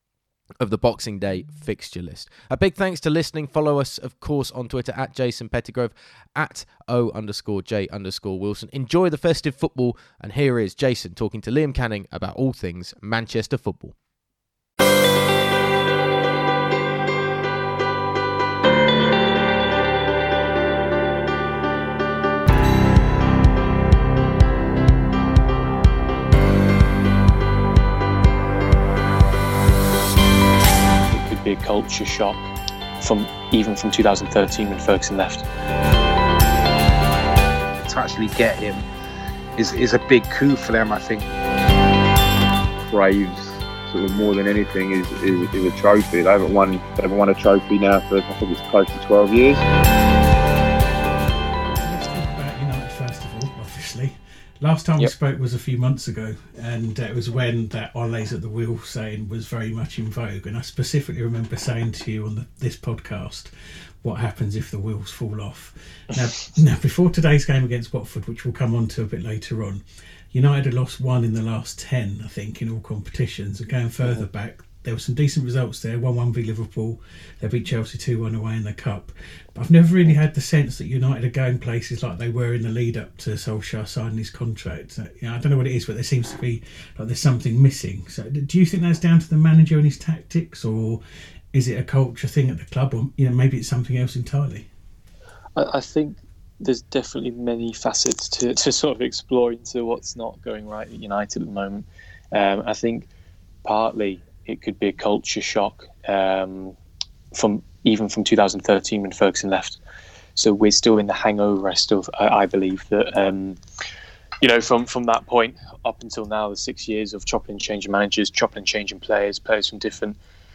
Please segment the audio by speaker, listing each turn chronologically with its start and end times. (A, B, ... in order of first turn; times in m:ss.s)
0:00.6-0:14.0 A
0:31.1-0:32.4 B
0:33.0-0:35.4 B
0:37.8-0:38.9 C
0:39.6-0:41.3 C
0:42.8-0:49.6 D
0:51.8-1:03.5 E
1:04.0-1:31.0 E
1:31.5-1:34.7 E
1:35.6-1:43.1 B
1:43.6-1:46.8 B
1:47.3-1:49.8 B
1:50.4-1:53.6 B
1:54.4-2:00.2 B